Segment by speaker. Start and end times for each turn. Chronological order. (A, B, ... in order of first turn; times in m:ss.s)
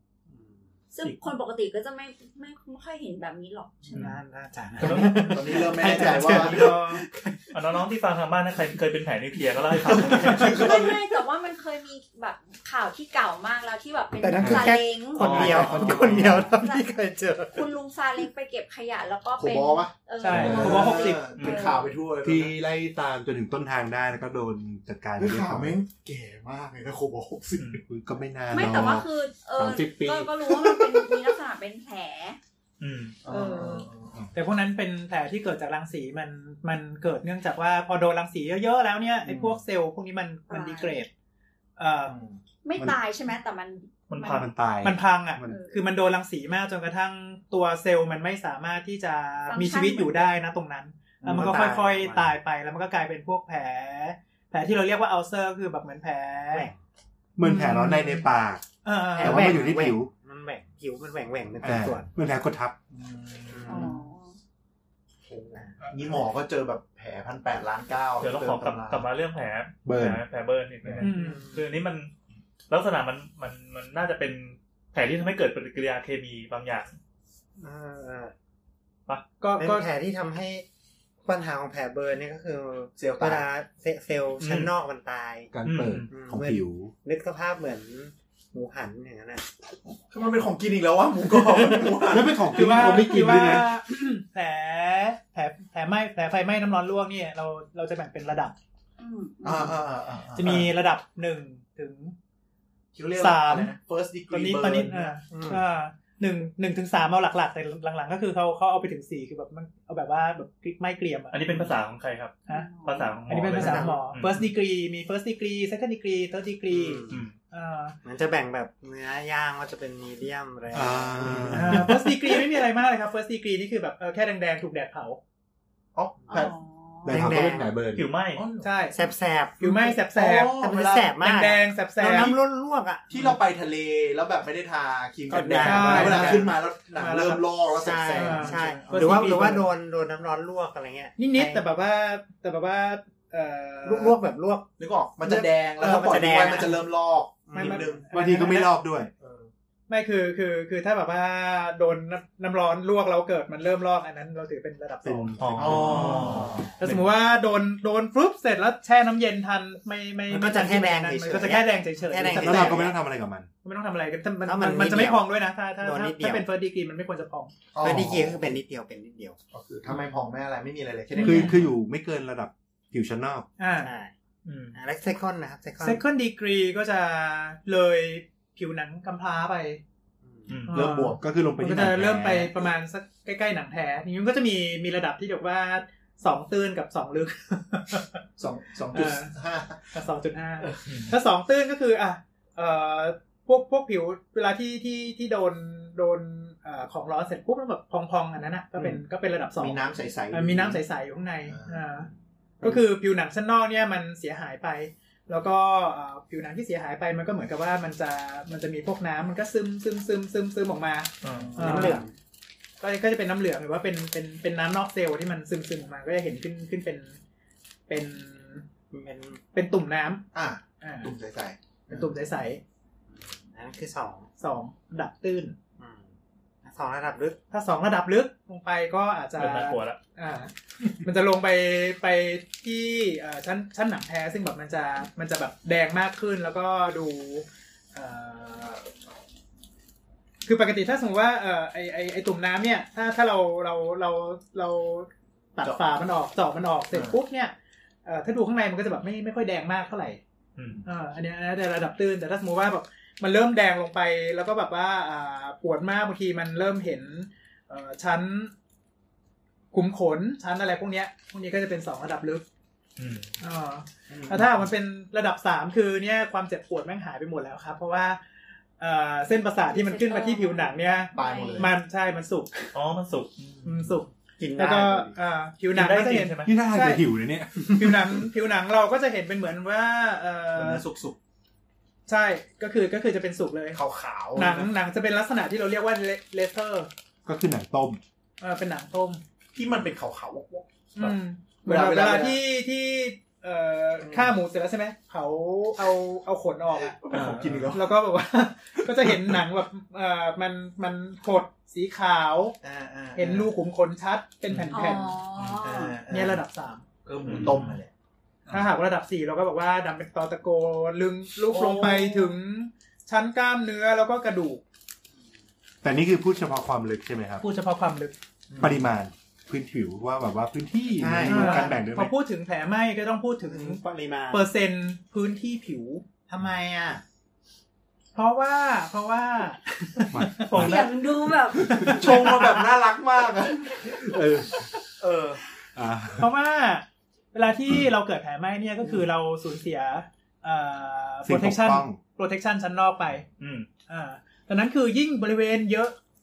0:00.3-0:00.6 A
0:00.9-0:04.1 B
0:03.9-0:07.5 A
0:04.8-0:05.6 C
0:05.1-0:06.8 D
0:05.6-0:07.0 E
0:07.5-0:10.6 C
0:09.9-0:11.0 D
0:10.4-0:16.9 B
0:14.2-0:17.7 A
0:14.4-0:16.6 F
0:15.2-0:16.0 C
0:15.7-0:16.1 D
0:17.5-0:22.0 B
0:19.4-0:22.6 D
0:20.2-0:21.3 E
0:20.3-0:20.9 F
0:21.4-0:21.7 C
0:22.2-0:25.8 F
0:25.2-0:27.8 D
0:27.8-0:31.2 F
0:28.5-0:32.4 B
0:32.8-0:33.2 C
0:33.2-0:34.1 D
0:33.3-0:33.9 B
0:34.3-0:41.1 E
0:39.2-0:39.6 D
0:40.5-0:41.0 B
0:41.8-0:42.1 E
0:42.1-0:42.4 D
0:42.6-0:44.5 B
0:44.1-0:44.5 C
0:44.2-0:45.6 F
0:44.8-0:56.7 E
0:45.5-0:45.8 B
0:49.5-0:50.3 B
0:51.2-0:51.6 D
0:51.2-0:52.3 A
0:57.4-0:58.6 F
0:57.4-0:58.2 E
0:58.8-0:59.6 E
0:59.1-1:02.1 A
0:59.2-1:00.1 F
1:01.6-1:02.8 F
1:02.9-1:03.9 D
1:03.5-1:03.9 A
1:03.7-1:04.4 B
1:05.3-1:09.0 D
1:05.5-1:05.8 A
1:08.2-1:12.1 C
1:09.8-1:10.2 F
1:11.0-1:11.4 E
1:11.0-1:11.6 A
1:12.7-1:17.0 C
1:17.6-1:18.3 A
1:19.4-1:19.9 E
1:19.6-1:20.6 A
1:21.2-1:25.5 A
1:23.0-1:23.4 D
1:24.4-1:24.7 C
1:25.5-1:26.9 F
1:25.6-1:26.1 C
1:26.1-1:29.4 A
1:30.1-1:32.4 D
1:32.1-1:33.7 F
1:32.5-1:38.5 E
1:39.0-1:39.7 B
1:39.4-1:40.7 D
1:40.3-1:42.1 E
1:42.9-1:45.1 D
1:43.2-1:43.7 E
1:44.3-1:51.7 E
1:45.3-1:45.6 A
1:51.3-1:54.4 C
1:52.5-1:53.3 B
1:53.3-1:58.0 E
1:53.4-1:54.0 A
1:56.7-1:57.2 A
1:57.1-1:57.3 C
1:58.0-2:02.4 A
2:00.7-2:02.0 F
2:01.5-2:05.2 E
2:05.9-2:06.5 D
2:06.3-2:07.2 B
2:07.0-2:08.1 F
2:07.1-2:07.8 A
2:07.9-2:08.4 C
2:08.3-2:08.7 D
2:08.6-2:09.0 E
2:08.9-2:09.8 A
2:09.6-2:10.6 E
2:09.8-2:11.1 D
2:10.4-2:13.1 A
2:11.2-2:12.3 E
2:13.1-2:19.6 D
2:15.3-2:16.5 A
2:15.6-2:17.4 E
2:17.8-2:21.6 A
2:18.1-2:19.6 E
2:21.2-2:24.2 E
2:23.8-2:24.7 A
2:24.8-2:28.1 D
2:25.2-2:26.8 A
2:27.5-2:28.0 A
2:27.5-2:28.7 E
2:28.1-2:29.1 F
2:29.2-2:29.5 D
2:29.9-2:42.9 E
2:35.0-2:36.9 F
2:35.4-2:36.9 C
2:35.6-2:36.7 D
2:40.3-2:42.9 A
2:42.4-2:43.5 F
2:43.6-2:47.5 E
2:44.4-2:46.4 A
2:47.7-2:48.6 D
2:47.8-2:49.4 A
2:49.5-2:51.7 D
2:51.1-2:51.6 E
2:51.2-2:53.5 F
2:53.6-2:53.9 E
2:53.8-2:54.1 A
2:54.4-2:54.7 C
2:54.7-2:56.0 A
2:55.8-2:59.8 E
3:00.2-3:00.6 A
3:00.5-3:00.8 C
3:00.7-3:08.2 E
3:00.7-3:01.2 D
3:00.9-3:02.5 F
3:08.4-3:10.0 D
3:08.9-3:09.3 E
3:09.9-3:19.8 E
3:10.6-3:11.0 D
3:10.9-3:11.1 C
3:19.6-3:20.8 D
3:20.3-3:22.1 E
3:21.4-3:22.0 D
3:22.6-3:32.0 E
3:31.2-3:31.6 C
3:31.2-3:32.0 D
3:31.6-3:32.1 A
3:32.8-3:37.2 E
3:37.9-3:38.6 E
3:38.9-3:39.4 A
3:39.5-3:40.2 E
3:40.3-3:42.0 D
3:40.8-3:41.1 E
3:41.9-3:42.6 E
3:43.1-3:44.3 A
3:44.4-3:45.5 E
3:45.8-3:46.1 A
3:46.6-3:47.4 A
3:47.5-3:58.9 E
3:49.4-3:50.0 C
4:00.4-4:07.5 E
4:06.9-4:07.2 D
4:08.0-4:10.2 E
4:10.6-4:10.8 C
4:10.8-4:18.5 E
4:19.7-4:22.4 E
4:23.0-4:23.3 C
4:23.4-4:28.2 E
4:24.1-4:24.6 D
4:28.8-4:32.7 E
4:29.6-4:31.7 B
4:31.1-4:31.7 D
4:32.7-4:33.8 C
4:33.6-4:37.0 E
4:34.4-4:35.1 A
4:35.7-4:36.5 C
4:36.4-4:38.2 F
4:37.7-4:40.8 E
4:40.5-4:41.2 D
4:42.1-4:43.8 E
4:43.7-4:44.7 D
4:44.3-4:46.9 E
4:47.2-4:48.0 F
4:48.4-4:49.2 E
4:49.5-4:52.4 D
4:51.0-4:57.0 E
4:54.0-4:54.4 D
4:56.7-4:58.0 D
4:57.1-4:57.7 C
4:57.7-5:02.6 E
4:59.0-4:59.4 D
5:02.6-5:03.5 D
5:03.1-5:05.2 E
5:04.5-5:04.8 C
5:04.7-5:06.0 B
5:05.6-5:06.4 D
5:06.1-5:06.8 E
5:07.0-5:07.9 D
5:07.2-5:07.8 C
5:08.5-5:14.6 E
5:11.5-5:12.0 D
5:15.8-5:17.4 F
5:17.4-5:18.1 E
5:18.5-5:18.9 D
5:18.6-5:22.1 F
5:21.0-5:21.8 A
5:21.2-5:26.0 E
5:23.4-5:24.5 A
5:26.3-5:27.0 A
5:28.1-5:30.5 E
5:30.1-5:30.9 F
5:30.6-5:32.2 B
5:31.5-5:32.6 F
5:31.8-5:34.0 D
5:33.8-5:34.7 F
5:35.0-5:35.4 D
5:35.7-5:36.3 F
5:36.2-5:43.2 E
5:41.2-5:42.0 F
5:43.4-5:43.7 C
5:43.9-5:46.0 E